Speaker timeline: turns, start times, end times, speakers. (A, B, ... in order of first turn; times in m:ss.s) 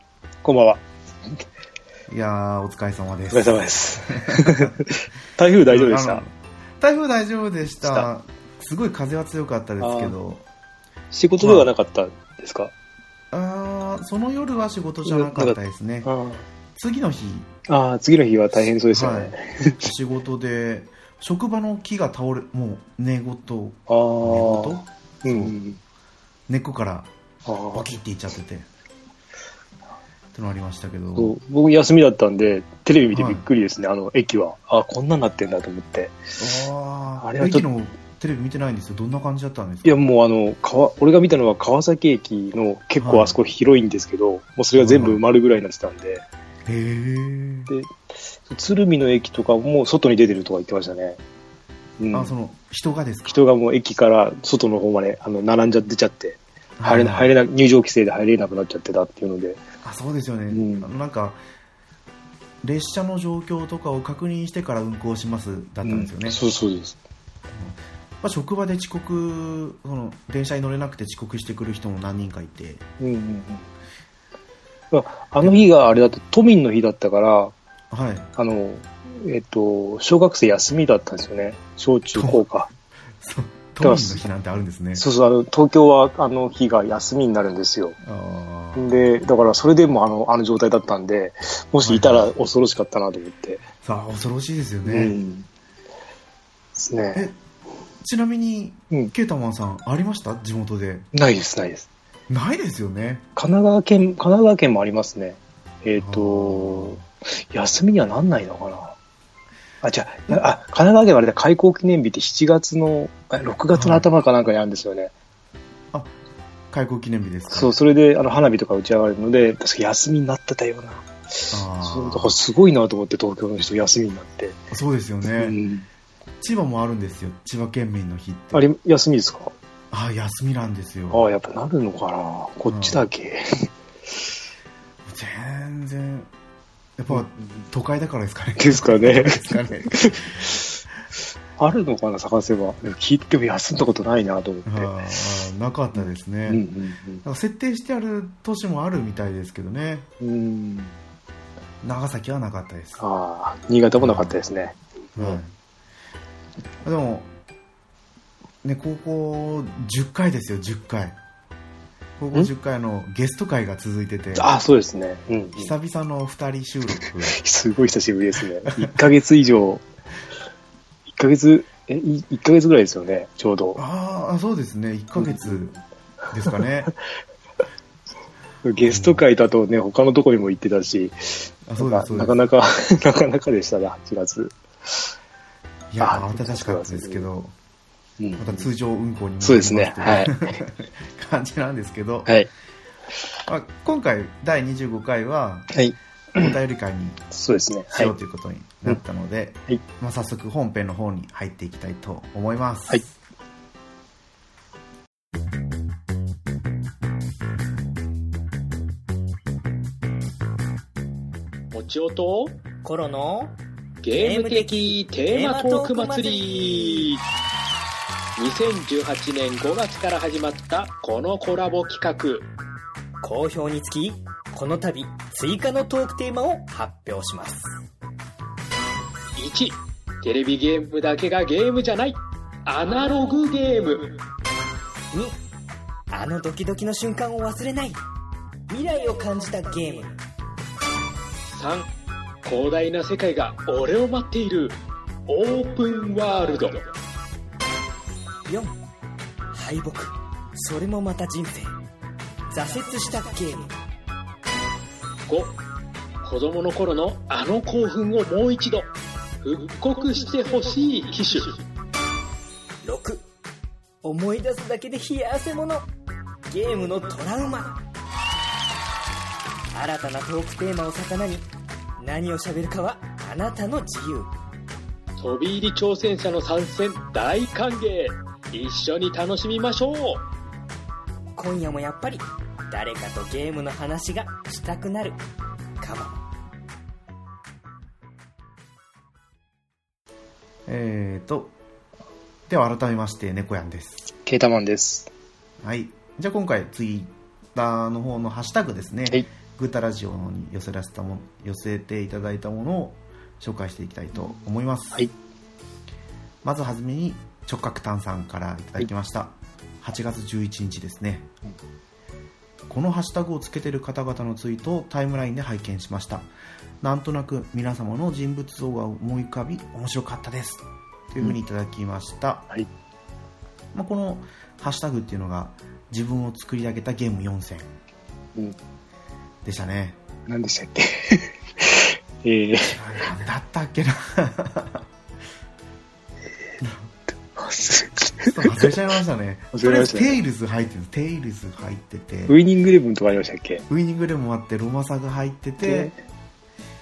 0:00.4-0:00.8 A
0:02.1-0:04.8 B
0:03.3-0:06.2 A
0:05.6-0:10.4 B
0:07.8-0:08.1 A
0:09.8-0:10.1 A
0:11.1-0:12.7 A
0:11.4-0:11.7 B
0:13.3-0:16.1 B
0:15.0-0:16.4 A
0:16.8-0:17.5 B
0:17.7-0:19.8 A
0:18.9-0:25.5 B
0:23.9-0:25.8 A
0:26.5-0:27.1 B
0:27.4-0:27.8 A
0:27.7-0:28.7 B
0:30.3-0:31.4 B
0:31.2-0:36.2 A
0:33.1-0:33.4 B
0:36.4-0:40.0 B
0:37.2-0:37.7 A
0:39.8-0:46.2 A
0:43.0-0:43.3 B
0:44.8-0:45.2 B
0:46.6-0:47.7 B
0:48.5-0:51.2 A
0:52.0-0:52.3 A
0:52.1-0:53.4 B
0:53.3-0:59.6 A
0:56.8-0:57.3 B
0:59.8-1:01.4 B
1:00.5-1:00.9 A
1:02.6-1:06.4 B
1:05.8-1:07.0 A
1:07.5-1:12.8 B
1:13.0-1:13.7 A
1:14.9-1:17.5 A
1:17.9-1:18.3 B
1:18.4-1:22.7 A
1:22.1-1:22.4 B
1:23.2-1:25.0 B
1:23.8-1:24.2 A
1:25.0-1:28.0 A
1:28.0-1:29.0 B
1:28.8-1:33.6 A
1:31.8-1:32.3 B
1:33.8-1:35.1 B
1:34.8-1:35.5 A
1:36.8-1:37.3 A
1:38.0-1:41.1 B
1:41.1-1:41.9 A
1:42.3-1:43.2 B
1:43.4-1:49.0 A
1:46.0-1:47.0 B
1:49.8-1:55.1 A
1:53.7-1:54.1 B
1:56.7-1:57.7 B
1:57.5-2:04.6 A
2:01.5-2:02.4 B
2:04.7-2:05.6 B
2:05.4-2:05.9 A
2:06.4-2:08.6 B
2:08.5-2:09.5 A
2:09.9-2:11.2 B
2:11.1-2:13.7 A
2:12.7-2:13.0 B
2:15.0-2:16.3 B
2:17.0-2:20.5 B
2:17.1-2:17.4 A
2:18.6-2:20.6 A
2:21.6-2:24.9 A
2:24.6-2:26.6 B
2:26.0-2:27.2 A
2:27.2-2:30.1 B
2:30.2-2:30.9 A
2:31.8-2:33.0 B
2:33.0-2:35.4 A
2:34.0-2:34.4 B
2:35.2-2:35.5 B
2:36.8-2:37.3 B
2:38.6-2:41.2 B
2:42.2-2:44.5 B
2:44.4-2:45.7 A
2:45.6-2:47.4 B
2:47.3-2:49.8 A
2:48.8-2:49.1 B
2:51.1-2:53.8 A
2:53.8-2:55.7 B
2:55.2-2:55.8 A
2:56.3-2:56.9 B
2:58.6-3:04.5 A
2:58.9-2:59.2 B
3:01.7-3:02.4 B
3:05.9-3:07.5 B
3:06.0-3:07.2 A
3:08.2-3:08.7 A
3:08.4-3:12.3 B
3:09.4-3:10.6 A
3:13.5-3:15.7 B
3:15.7-3:16.5 A
3:16.3-3:17.2 B
3:17.3-3:18.1 A
3:17.9-3:23.1 B
3:31.7-3:32.6 C
3:32.8-3:33.6 D
3:34.0-3:37.2 C
3:34.1-3:37.1 D
3:38.4-3:42.5 C
3:43.2-3:47.7 D
3:49.4-3:54.2 C
3:55.1-3:55.4 D
3:56.1-3:58.0 D
3:58.7-4:00.2 D
4:01.5-4:01.9 C
4:02.4-4:06.8 C
4:08.5-4:08.7 D
4:09.5-4:11.7 D
4:12.5-4:13.7 D
4:15.3-4:15.5 C
4:16.2-4:18.9 C
4:19.4-4:21.6 C
4:22.8-4:23.2 D
4:24.0-4:25.8 D
4:26.5-4:27.8 D
4:29.7-4:31.5 D
4:32.0-4:34.3 D
4:35.2-4:40.2 C
4:41.4-4:45.2 D
4:45.8-4:46.2 D
4:50.7-4:51.5 B
4:52.5-4:54.1 B
4:54.2-4:55.1 A
4:55.6-5:05.0 B
5:06.4-5:11.3 B
5:12.7-5:16.3 B
5:16.8-5:22.5 B
5:23.7-5:27.7 B
5:29.4-5:30.0 B
5:30.3-5:32.8 A
5:32.7-5:34.9 B
5:36.6-5:36.9 B
5:37.3-5:38.7 A
5:38.2-5:42.4 B
5:39.5-5:40.2 A
5:42.3-5:43.6 A
5:43.7-5:45.9 B
5:45.6-5:46.0 A